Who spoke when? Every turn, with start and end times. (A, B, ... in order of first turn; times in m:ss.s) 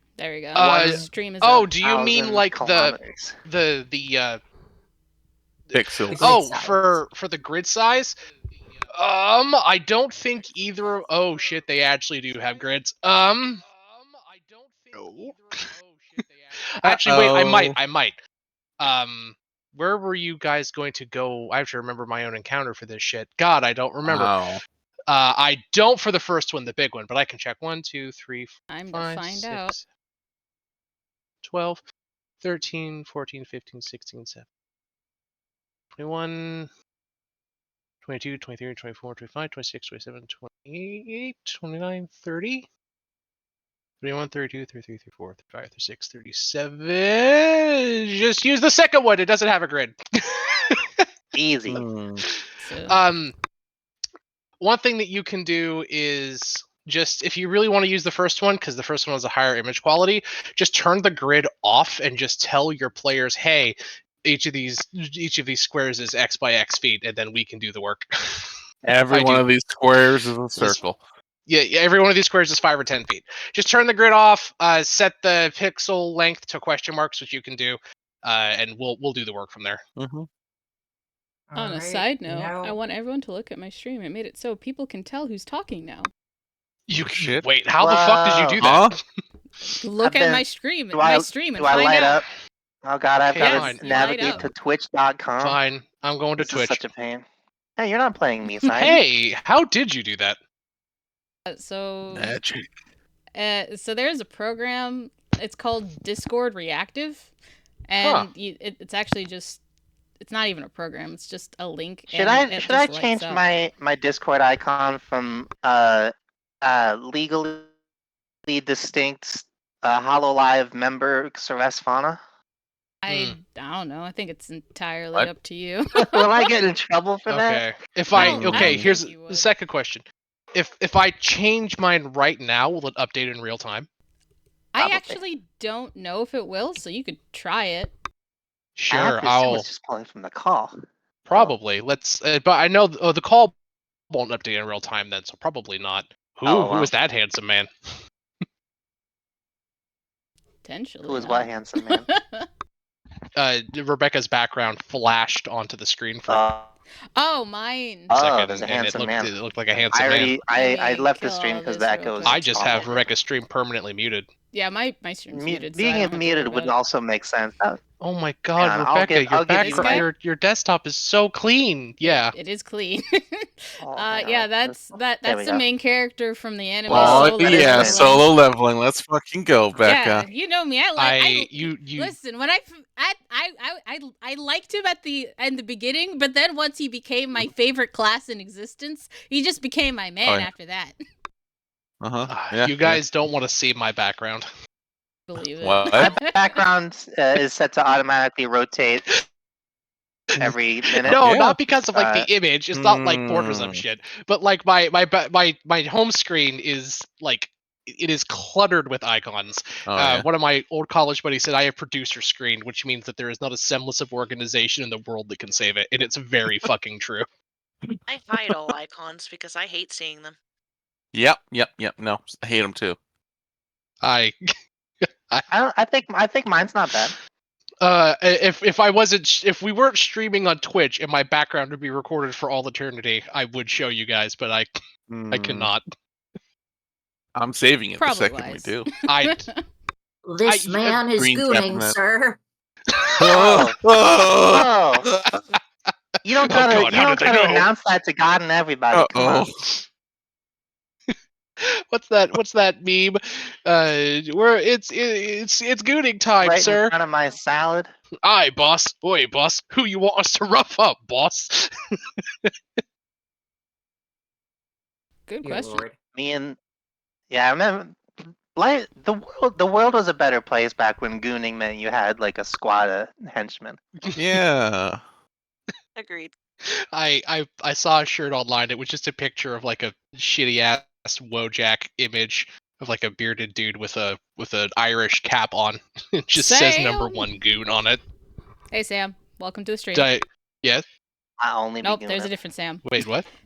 0:00.2-0:01.7 A
0:00.5-0:04.4 B
0:00.6-0:01.0 C
0:01.8-0:03.4 C
0:05.7-0:08.2 B
0:05.7-0:06.4 D
0:06.1-0:07.0 E
0:08.8-0:18.2 B
0:15.0-0:15.6 D
0:16.8-0:17.8 D
0:18.8-0:24.4 B
0:24.0-0:24.6 D
0:25.1-0:29.9 B
0:28.7-0:29.7 A
0:31.4-0:31.8 B
0:32.4-0:34.5 B
0:35.9-0:36.7 B
0:38.0-0:42.7 B
0:44.0-0:51.0 B
0:51.3-0:51.8 C
0:51.7-0:52.2 D
0:52.6-0:53.0 A
0:52.9-0:53.4 B
0:54.6-1:08.5 B
1:08.8-1:11.0 D
1:09.1-1:09.5 B
1:11.5-1:19.8 B
1:20.0-1:20.3 D
1:21.5-1:22.8 E
1:21.6-1:26.1 A
1:26.9-1:29.0 B
1:27.1-1:27.5 D
1:27.8-1:28.6 C
1:28.6-1:28.9 D
1:29.7-1:32.2 A
1:30.0-1:32.2 C
1:32.8-1:35.6 C
1:33.2-1:34.4 B
1:33.4-1:34.5 A
1:35.4-1:36.8 B
1:36.4-1:37.2 C
1:37.8-1:39.0 C
1:38.7-1:40.4 B
1:41.5-1:42.3 A
1:42.1-1:42.7 D
1:43.3-1:47.3 A
1:47.9-1:49.6 A
1:48.0-1:48.3 B
1:50.2-1:53.4 A
1:52.1-1:57.7 C
1:58.5-2:02.2 C
2:03.0-2:06.4 A
2:03.1-2:03.4 B
2:06.0-2:07.6 C
2:07.3-2:13.9 B
2:08.1-2:09.5 A
2:08.2-2:08.9 D
2:08.2-2:08.4 C
2:14.7-2:17.9 A
2:14.8-2:15.2 C
2:18.8-2:19.7 B
2:18.9-2:20.7 C
2:21.2-2:23.5 B
2:24.1-2:27.7 B
2:26.4-2:26.9 C
2:30.6-2:32.4 A
2:31.0-2:32.0 C
2:33.4-2:36.4 B
2:36.3-2:36.7 C
2:37.2-2:38.1 A
2:38.1-2:39.3 C
2:38.1-2:40.4 B
2:39.9-2:43.0 C
2:40.5-2:42.9 A
2:42.2-2:44.3 B
2:44.5-2:46.8 A
2:45.3-2:47.8 C
2:48.0-2:52.3 B
2:48.6-2:50.0 C
2:49.6-2:50.1 A
2:52.0-2:58.3 A
2:53.8-2:55.6 C
2:56.9-3:00.3 D
2:56.9-2:58.2 C
2:59.8-3:11.0 A
3:01.0-3:02.2 B
3:10.2-3:10.5 D
3:12.0-3:13.0 D
3:12.3-3:14.5 B
3:15.3-3:16.3 A
3:15.6-3:16.1 D
3:15.9-3:19.1 C
3:20.4-3:21.2 C
3:21.0-3:37.2 B
3:21.0-3:21.6 D
3:21.9-3:22.3 C
3:22.7-3:23.8 D
3:29.8-3:30.3 D
3:38.1-3:40.4 F
3:41.1-3:43.0 D
3:44.0-3:44.4 B
3:45.0-3:45.4 B
3:45.5-3:47.2 C
3:47.8-3:54.7 B
3:55.1-3:55.7 D
3:55.3-3:55.8 B
3:57.3-3:58.9 D
3:58.0-3:59.6 A
3:59.0-3:59.4 B
4:00.2-4:02.4 E
4:00.4-4:01.1 B
4:01.1-4:02.0 D
4:03.2-4:05.4 D
4:03.3-4:03.8 C
4:04.5-4:05.0 C
4:06.2-4:09.4 C
4:06.5-4:07.7 B
4:08.9-4:09.6 D
4:11.6-4:16.9 B
4:16.4-4:17.9 C
4:18.2-4:21.7 B
4:25.3-4:25.8 A
4:25.4-4:26.0 E
4:26.1-4:26.6 C
4:27.3-4:33.8 C
4:34.1-4:35.0 D
4:36.0-4:36.3 F
4:36.9-4:48.0 B
4:46.4-4:47.3 A
4:48.7-4:50.1 A
4:49.9-4:50.8 B
4:51.4-4:52.3 C
4:51.8-4:52.9 A
4:52.8-4:53.3 B